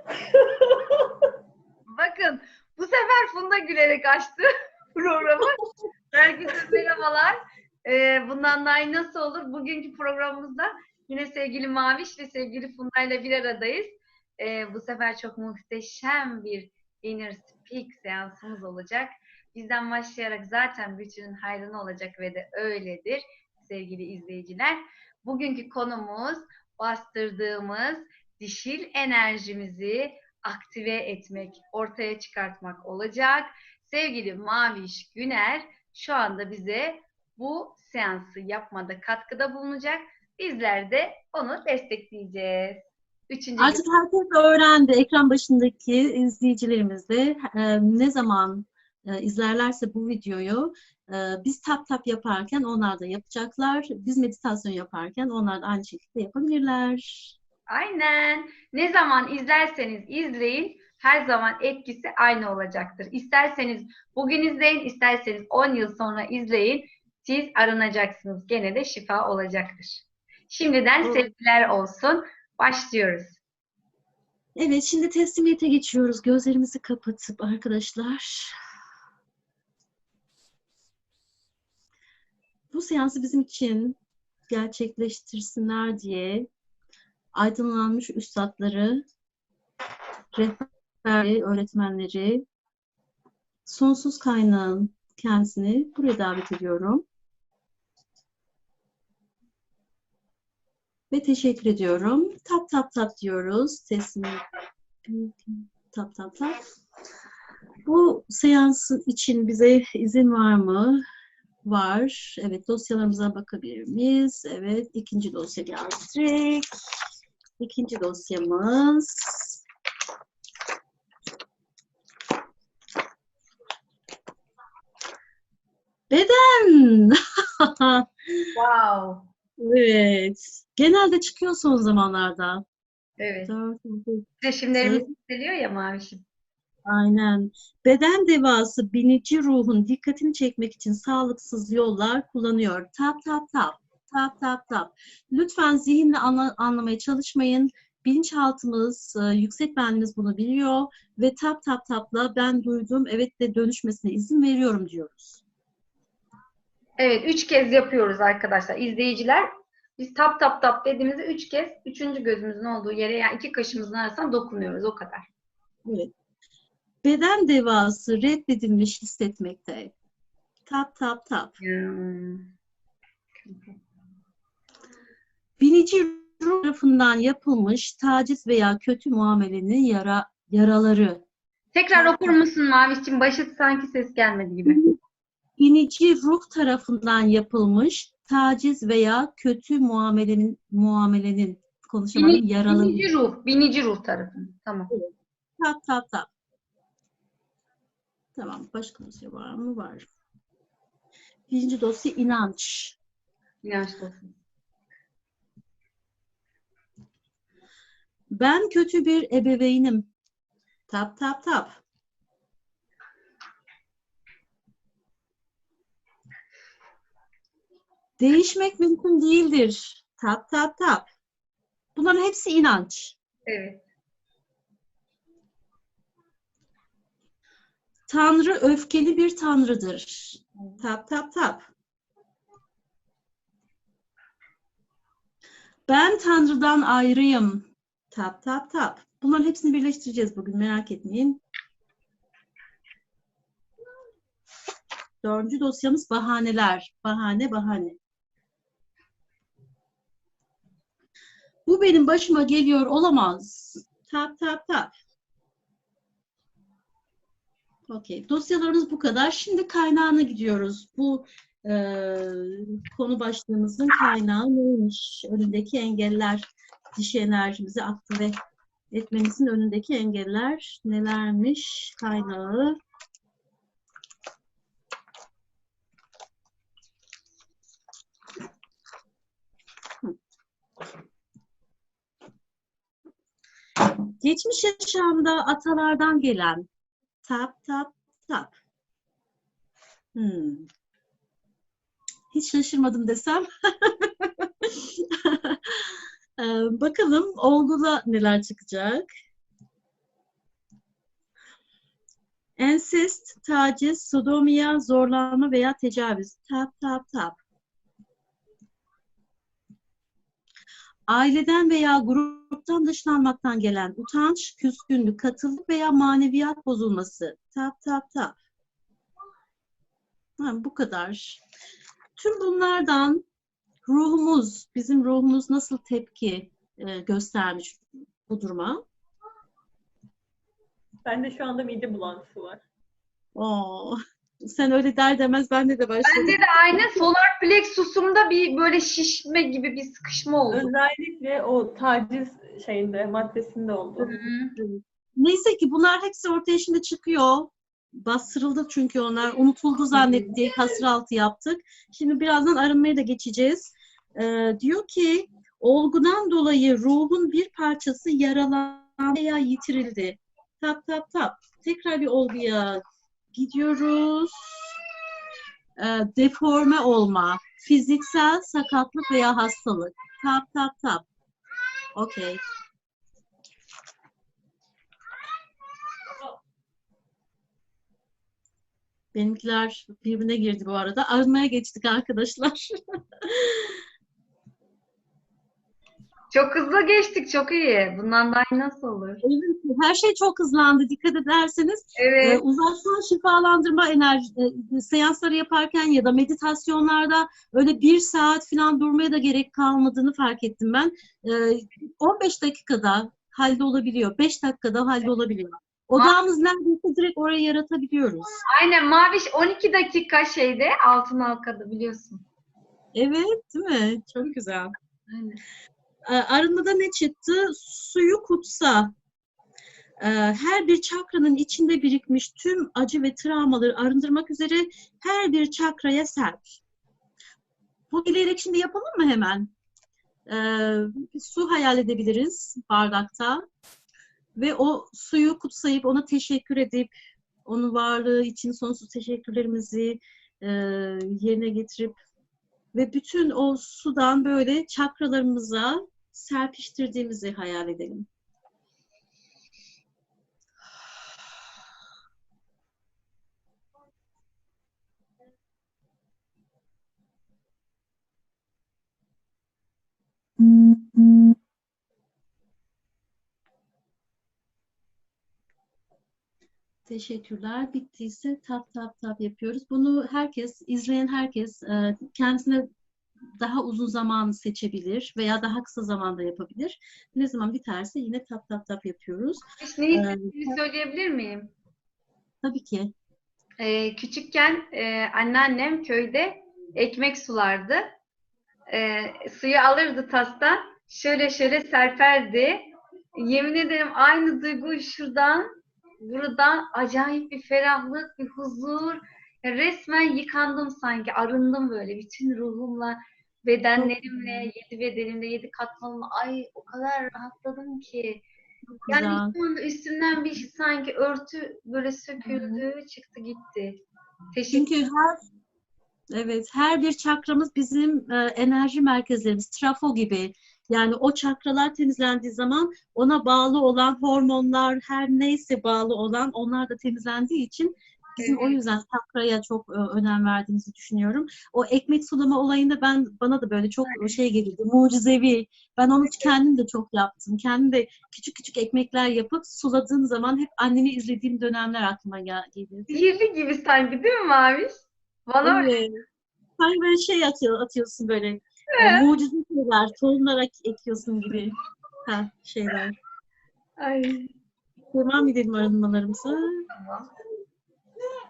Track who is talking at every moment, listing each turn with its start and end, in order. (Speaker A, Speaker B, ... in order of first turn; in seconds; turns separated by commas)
Speaker A: 1.9-5.5, Speaker A: 6.1-43.9, Speaker B: 43.6-57.3, Speaker A: 57.7-73.4, Speaker B: 71.0-71.3, Speaker B: 74.5-78.5, Speaker B: 82.7-84.0, Speaker B: 84.5-86.5, Speaker B: 87.3-89.0, Speaker B: 90.3-92.4, Speaker B: 93.7-97.0, Speaker B: 101.1-104.4, Speaker B: 105.0-106.6, Speaker B: 107.8-111.0, Speaker B: 111.6-116.7, Speaker B: 117.6-119.6, Speaker B: 126.1-128.4, Speaker A: 128.5-129.3, Speaker B: 129.6-132.6, Speaker A: 133.2-133.5, Speaker B: 133.4-135.1, Speaker A: 134.4-136.2, Speaker B: 136.8-155.4, Speaker A: 157.0-165.3, Speaker B: 165.8-166.1, Speaker B: 167.0-169.9, Speaker B: 170.7-171.5, Speaker A: 171.6-172.5, Speaker A: 173.4-173.8, Speaker B: 175.6-181.2, Speaker A: 181.7-184.8, Speaker B: 181.9-182.4, Speaker B: 184.7-185.0, Speaker B: 185.6-193.0, Speaker A: 192.1-194.9, Speaker B: 194.9-196.3, Speaker B: 198.3-200.1, Speaker B: 201.5-203.0, Speaker A: 203.6-204.3, Speaker B: 208.3-210.1, Speaker B: 210.9-211.8, Speaker B: 218.2-221.1, Speaker B: 221.9-223.2, Speaker A: 223.4-223.8, Speaker B: 228.1-231.7, Speaker B: 235.9-241.4, Speaker B: 245.2-248.0, Speaker B: 251.7-254.9, Speaker B: 257.9-268.3, Speaker B: 268.9-272.8, Speaker B: 284.2-286.7, Speaker B: 287.2-288.6, Speaker B: 290.1-290.7, Speaker B: 292.3-299.1, Speaker B: 302.6-307.4, Speaker B: 311.1-318.4, Speaker B: 320.4-321.4, Speaker B: 322.1-323.2, Speaker B: 323.8-328.8, Speaker C: 331.0-332.6, Speaker B: 333.4-337.0, Speaker A: 336.0-340.7, Speaker C: 340.5-344.2, Speaker A: 344.0-344.6, Speaker B: 344.6-362.8, Speaker A: 349.9-350.8, Speaker B: 363.3-364.7, Speaker B: 365.8-371.1, Speaker B: 371.9-372.4, Speaker B: 379.1-383.8, Speaker A: 386.3-389.2, Speaker B: 389.2-408.3, Speaker A: 391.9-392.4, Speaker A: 408.5-412.2, Speaker B: 412.9-414.7, Speaker A: 415.1-415.4, Speaker B: 416.1-418.9, Speaker B: 420.0-426.6, Speaker B: 427.9-429.5, Speaker B: 430.3-433.4, Speaker B: 434.4-436.9, Speaker B: 437.4-442.0, Speaker B: 442.7-448.1, Speaker B: 466.9-472.7, Speaker B: 473.4-479.4, Speaker A: 479.6-481.5, Speaker B: 479.9-480.6, Speaker B: 482.4-482.9, Speaker A: 483.6-487.8, Speaker A: 488.7-508.2, Speaker B: 503.8-504.5, Speaker B: 508.8-509.3, Speaker A: 508.9-513.8, Speaker B: 512.2-512.6, Speaker A: 514.3-514.8, Speaker B: 514.5-515.2, Speaker B: 516.1-543.1, Speaker A: 528.2-528.6, Speaker A: 533.9-534.2, Speaker A: 542.9-544.7, Speaker A: 545.3-545.8, Speaker B: 545.4-546.0, Speaker B: 546.6-553.0, Speaker A: 548.7-549.0, Speaker A: 553.8-554.3, Speaker B: 554.9-556.6, Speaker A: 556.7-557.1